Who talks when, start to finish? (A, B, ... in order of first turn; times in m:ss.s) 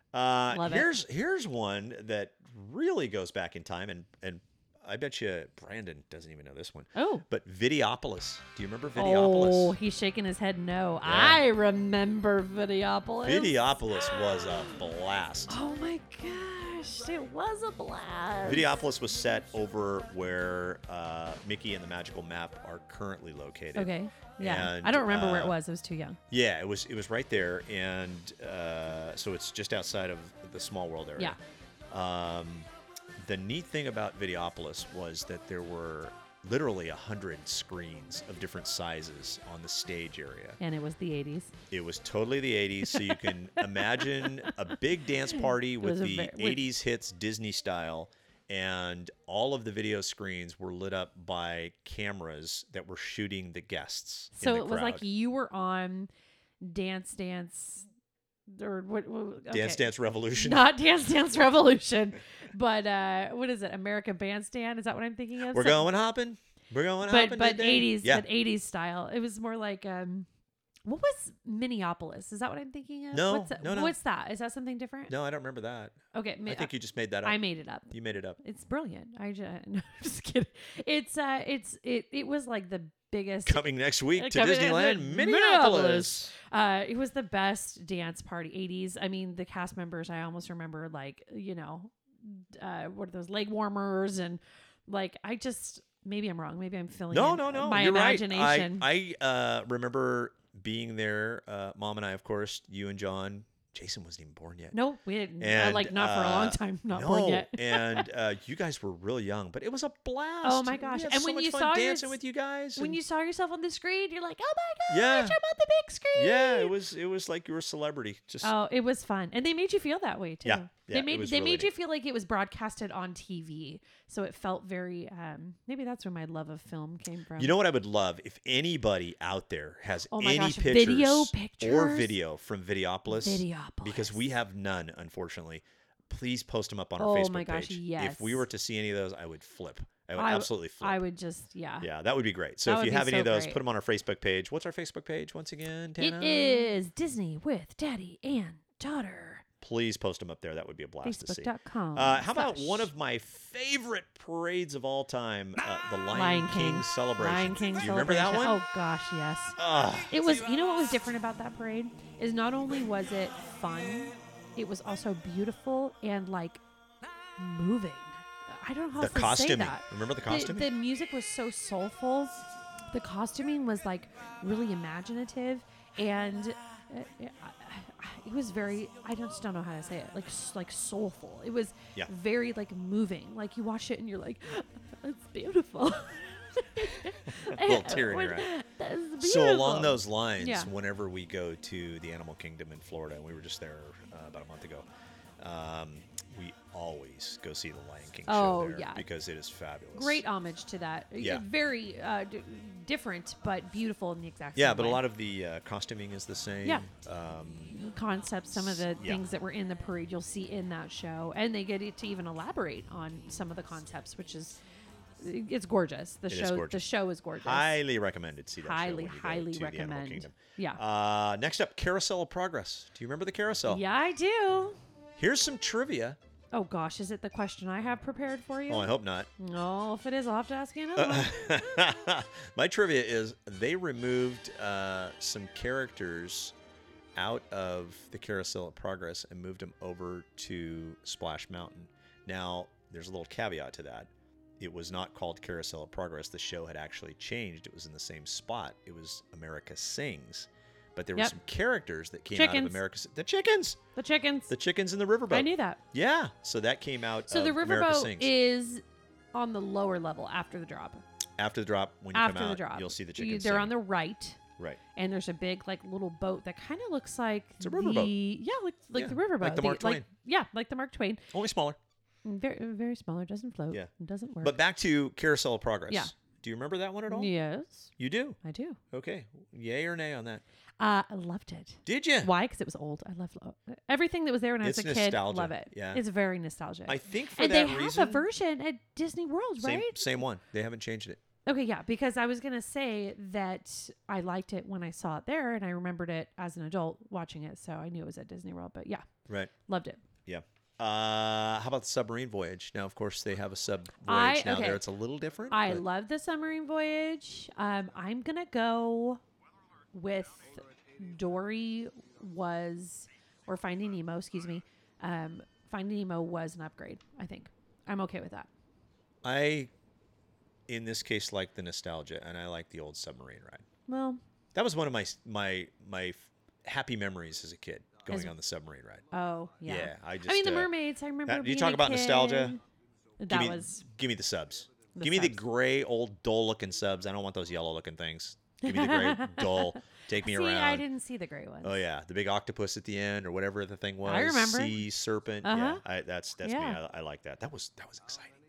0:00.1-0:09.8 A
0:00.5-0:00.9 B
0:07.0-0:07.2 B
0:09.0-0:14.8 B
0:11.0-0:11.4 A
0:13.2-0:15.6 A
0:15.5-0:18.7 B
0:18.4-0:25.6 A
0:23.8-0:26.2 B
0:26.3-0:31.4 A
0:31.9-0:40.6 A
0:40.6-0:41.5 B
0:41.7-0:55.0 A
0:42.9-0:44.7 B
0:45.3-0:46.7 B
0:54.4-0:56.1 B
0:56.6-0:57.9 B
0:58.5-1:05.9 B
0:59.5-1:00.7 A
1:05.4-1:08.3 A
1:07.0-1:10.3 B
1:10.8-1:15.1 B
1:13.1-1:14.0 A
1:15.1-1:18.4 A
1:16.1-1:38.9 B
1:23.4-1:26.3 A
1:37.1-1:44.8 A
1:44.7-1:48.1 B
1:45.4-1:53.0 A
1:50.4-1:52.2 B
1:52.8-1:56.8 B
1:54.9-1:55.4 A
1:56.1-1:58.5 A
1:58.4-2:07.6 B
2:00.4-2:01.7 A
2:07.4-2:21.0 A
2:10.1-2:12.1 B
2:13.1-2:14.2 B
2:17.0-2:18.4 B
2:20.2-2:21.9 B
2:21.8-2:26.7 A
2:22.6-2:23.6 B
2:26.0-2:29.4 B
2:29.6-2:38.6 A
2:31.0-2:32.9 B
2:36.1-2:39.6 B
2:39.6-2:40.4 A
2:40.1-2:46.6 B
2:47.4-3:10.7 B
2:49.0-2:50.7 A
3:07.3-3:08.5 A
3:09.2-3:14.9 A
3:15.4-3:20.2 A
3:18.3-3:19.1 B
3:19.9-3:25.0 B
3:21.2-3:21.4 A
3:24.6-3:27.8 A
3:27.7-3:34.6 B
3:28.5-3:29.2 A
3:35.2-3:37.8 B
3:36.3-3:36.8 A
3:37.4-3:43.8 A
3:38.6-3:40.8 B
3:43.7-3:44.8 B
3:45.2-3:46.2 A
3:46.5-3:51.6 B
3:48.7-3:49.3 A
3:51.0-3:56.5 A
3:57.2-4:13.8 A
4:12.3-4:12.8 B
4:14.0-4:14.5 B
4:14.5-4:18.3 A
4:15.3-4:15.8 B
4:17.3-4:18.8 B
4:19.3-4:21.0 B
4:21.4-4:23.8 A
4:22.1-4:24.4 B
4:25.0-4:31.3 B
4:27.6-4:28.1 A
4:28.9-4:30.1 A
4:31.3-4:31.8 A
4:32.2-4:34.6 B
4:34.4-4:37.3 A
4:37.1-4:37.9 B
4:38.0-4:38.4 A
4:38.4-4:38.8 B
4:38.9-4:40.4 A
4:40.8-4:50.1 B
4:41.9-4:42.3 A
4:44.6-4:46.0 A
4:46.9-4:48.3 A
4:49.6-4:51.2 A
4:51.5-4:59.1 B
4:59.7-5:00.0 B
5:00.3-5:05.8 A
5:04.0-5:04.8 B
5:05.5-5:09.2 B
5:09.9-5:18.5 B
5:19.2-5:19.7 A
5:20.7-5:23.6 A
5:23.9-5:24.2 B
5:24.5-5:29.0 A
5:28.1-5:28.4 B
5:29.1-5:32.6 B
5:29.6-5:30.7 A
5:31.3-5:32.6 A
5:33.2-5:33.8 B
5:33.3-5:40.8 A
5:34.9-5:35.4 B
5:38.6-5:41.8 B
5:41.6-5:48.4 A
5:44.0-5:44.8 B
5:45.4-5:45.8 B
5:46.4-5:46.8 B